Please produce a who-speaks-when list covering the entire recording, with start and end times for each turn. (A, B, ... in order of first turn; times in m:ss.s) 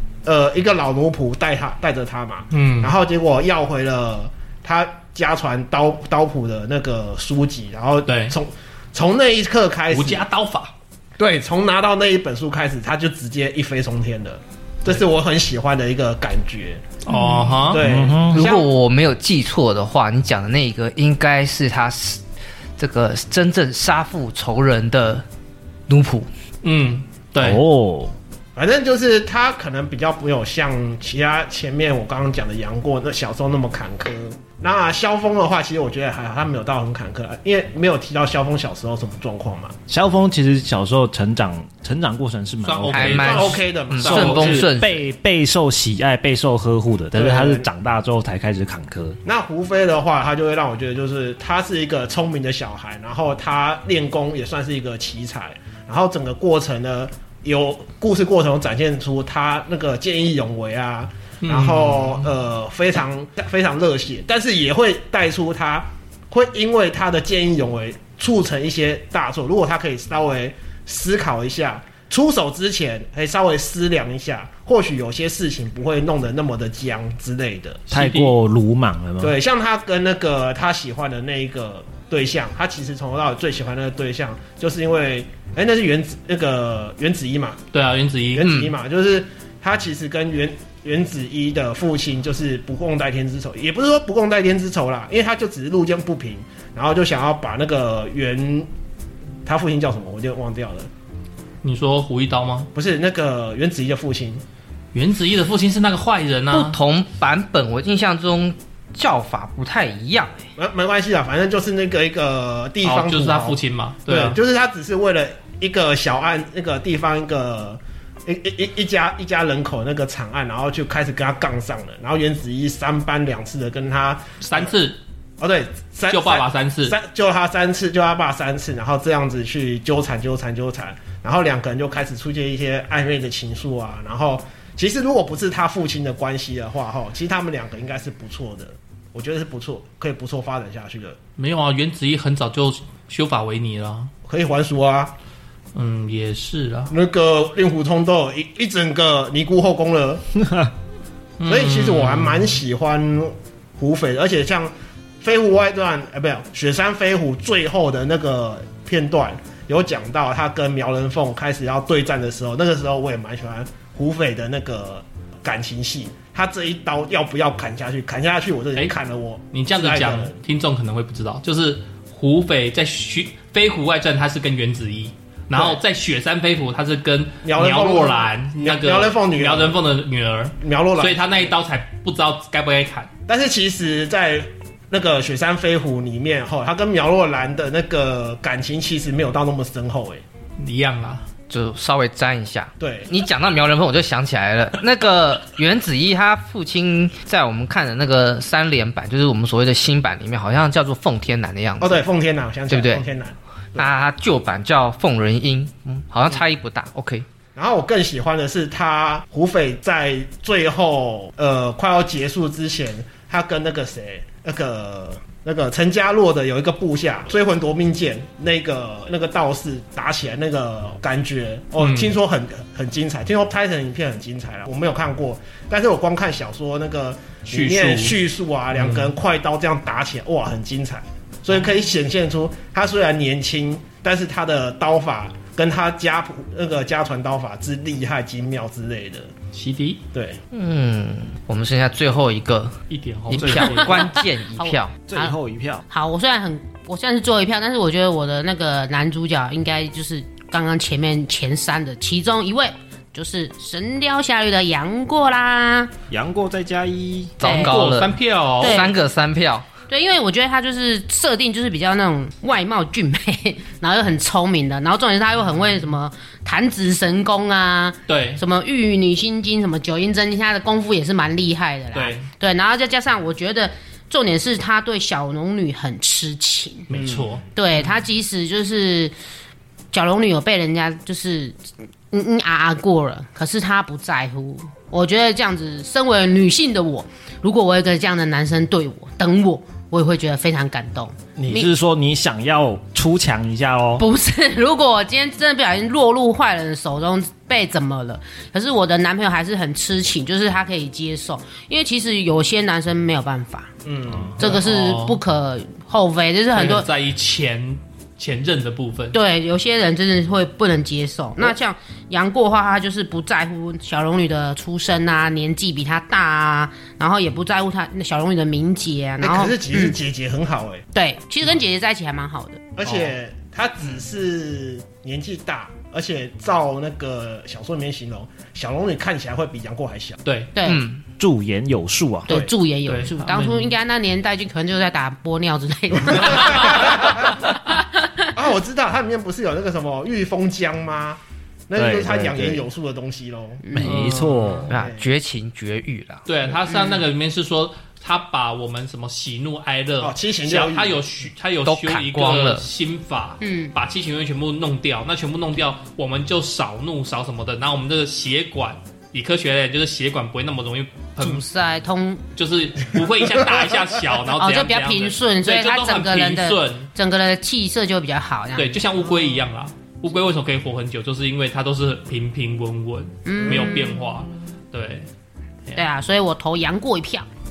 0:00.2-0:10.2 A
0:02.5-0:02.9 B
0:08.0-0:08.4 B
0:09.9-0:10.7 B
0:11.2-0:16.8 A
0:17.0-0:17.8 B
0:17.1-0:17.5 C
0:17.6-0:18.7 A
0:17.7-0:18.4 D
0:18.3-0:22.2 E
0:22.8-0:25.2 E
0:25.9-0:26.3 E
0:26.6-0:27.6 B
0:27.4-0:28.1 D
0:28.6-0:39.8 A
0:39.9-0:43.4 D
0:42.6-0:44.7 B
0:42.9-0:45.0 E
0:43.2-0:44.6 A
0:44.0-0:49.2 D
0:47.1-0:47.6 A
0:49.2-1:17.9 A
1:01.4-1:02.3 B
1:17.9-1:18.3 B
1:17.9-1:19.4 D
1:19.2-1:27.6 A
1:27.7-1:28.5 B
1:28.3-1:38.7 A
1:28.4-1:28.7 E
1:39.4-1:40.9 A
1:41.6-1:42.7 B
1:42.7-1:44.4 A
1:44.9-1:46.8 B
1:46.5-1:50.4 E
1:50.6-2:04.7 A
1:52.8-1:54.4 B
2:04.4-2:05.0 B
2:05.4-2:21.2 A
2:06.1-2:07.0 B
2:21.4-2:24.1 B
2:24.2-2:25.1 A
2:25.7-2:26.9 B
2:26.9-2:30.2 A
2:30.4-2:30.7 D
2:31.4-2:32.6 B
2:31.4-2:50.4 A
2:49.5-3:03.1 B
2:55.5-2:55.8 A
2:57.4-2:59.8 A
3:00.6-3:01.5 A
3:03.3-3:10.2 A
3:10.6-3:11.3 B
3:11.5-3:22.0 E
3:12.8-3:13.1 A
3:21.8-3:23.9 A
3:22.7-3:23.0 E
3:23.8-3:27.2 E
3:27.6-3:59.3 A
3:41.8-3:42.1 B
3:47.5-3:48.2 B
3:48.7-3:49.1 B
3:59.5-4:00.0 B
4:00.1-4:00.4 A
4:00.5-4:02.7 E
4:02.9-4:04.1 B
4:03.3-4:04.9 E
4:03.4-4:03.7 D
4:03.7-4:05.4 C
4:05.1-4:05.8 D
4:05.9-4:15.9 C
4:16.1-4:17.4 D
4:17.4-4:19.7 E
4:17.4-4:17.8 C
4:17.4-4:18.9 B
4:18.6-4:18.9 C
4:19.9-4:36.9 C
4:28.1-4:28.4 B
4:31.9-4:32.3 B
4:36.9-4:37.4 B
4:36.9-4:37.4 A
4:37.5-4:39.1 C
4:39.9-4:41.6 C
4:42.1-4:51.7 C
4:51.4-4:54.0 D
4:54.0-5:03.7 C
5:03.8-5:04.6 A
5:04.4-5:06.9 C
5:04.4-5:05.2 B
5:06.5-5:09.2 B
5:09.1-5:20.0 C
5:19.2-5:20.8 A
5:20.9-5:22.6 C
5:22.8-5:30.2 A
5:22.8-5:23.1 B
5:30.2-5:30.5 B
5:30.5-5:30.8 C
5:30.6-5:31.0 E
5:31.2-5:32.3 D
5:32.3-5:38.3 C
5:32.9-5:33.7 B
5:36.2-5:37.4 A
5:36.5-5:36.8 B
5:38.3-5:43.6 A
5:41.7-5:42.6 D
5:43.6-5:44.0 C
5:43.7-5:44.7 D
5:43.8-5:44.7 B
5:44.7-5:46.2 E
5:44.7-5:45.1 A
5:46.3-6:01.4 B
5:46.7-5:47.0 C
5:50.0-5:51.0 A
5:51.6-5:52.6 E
5:53.4-5:53.7 C
6:01.2-6:02.2 C
6:02.4-6:06.9 B
6:04.3-6:09.0 C
6:08.6-6:15.1 B
6:13.2-6:14.0 C
6:15.7-6:17.3 C